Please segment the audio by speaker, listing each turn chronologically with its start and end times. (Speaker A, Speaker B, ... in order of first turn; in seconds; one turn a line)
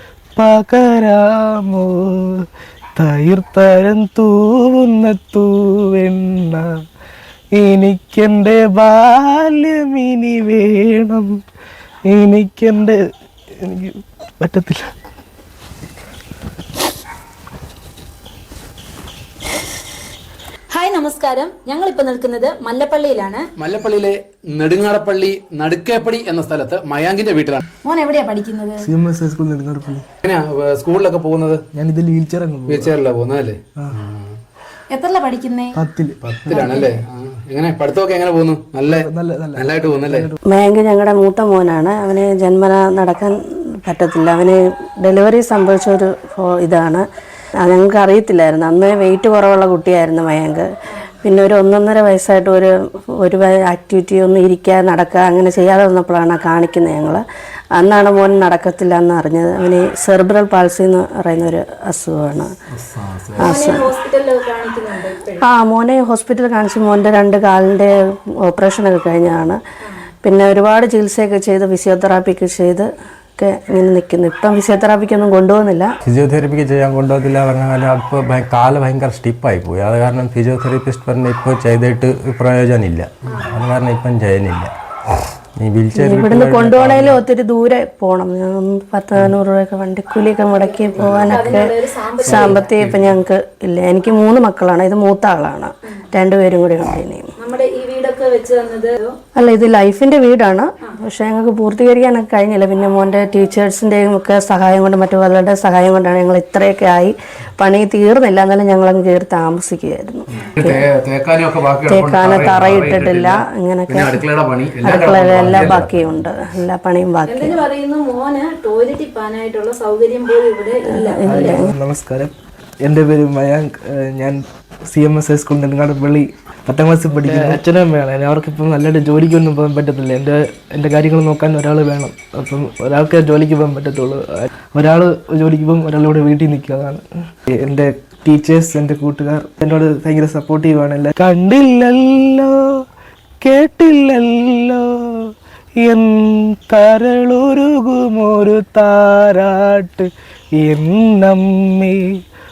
Speaker A: 0.4-2.4
Speaker A: 3.0-6.7
Speaker A: 7.5-11.3
Speaker A: 12.1-13.0
Speaker A: 13.6-14.9
Speaker B: 20.7-23.5
Speaker C: 23.6-27.6
Speaker B: 27.8-28.9
Speaker A: 28.8-30.1
Speaker C: 30.2-31.6
Speaker A: 31.7-32.9
Speaker C: 32.7-34.3
Speaker B: 34.9-35.8
Speaker A: 35.7-36.8
Speaker C: 36.2-40.3
Speaker B: 36.6-36.9
Speaker A: 38.9-40.4
Speaker D: 40.5-47.0
Speaker D: 47.6-50.7
Speaker D: 51.2-57.2
Speaker D: 57.7-62.5
Speaker C: 62.7-63.6
Speaker B: 63.4-65.4
Speaker D: 63.4-63.9
Speaker D: 65.4-67.9
Speaker D: 68.5-69.6
Speaker D: 70.2-75.9
Speaker E: 76.0-84.7
Speaker E: 85.6-87.2
Speaker D: 86.0-97.3
Speaker B: 90.6-92.8
Speaker C: 91.0-91.6
Speaker C: 92.2-93.2
Speaker B: 97.4-99.2
Speaker D: 99.3-110.8
Speaker C: 110.4-115.9
Speaker D: 111.9-114.2
Speaker D: 114.8-117.6
Speaker E: 115.5-116.0
Speaker B: 117.2-121.6
Speaker D: 120.9-121.7
Speaker A: 121.2-122.3
Speaker A: 122.8-142.7
Speaker C: 127.2-127.6
Speaker A: 143.4-152.1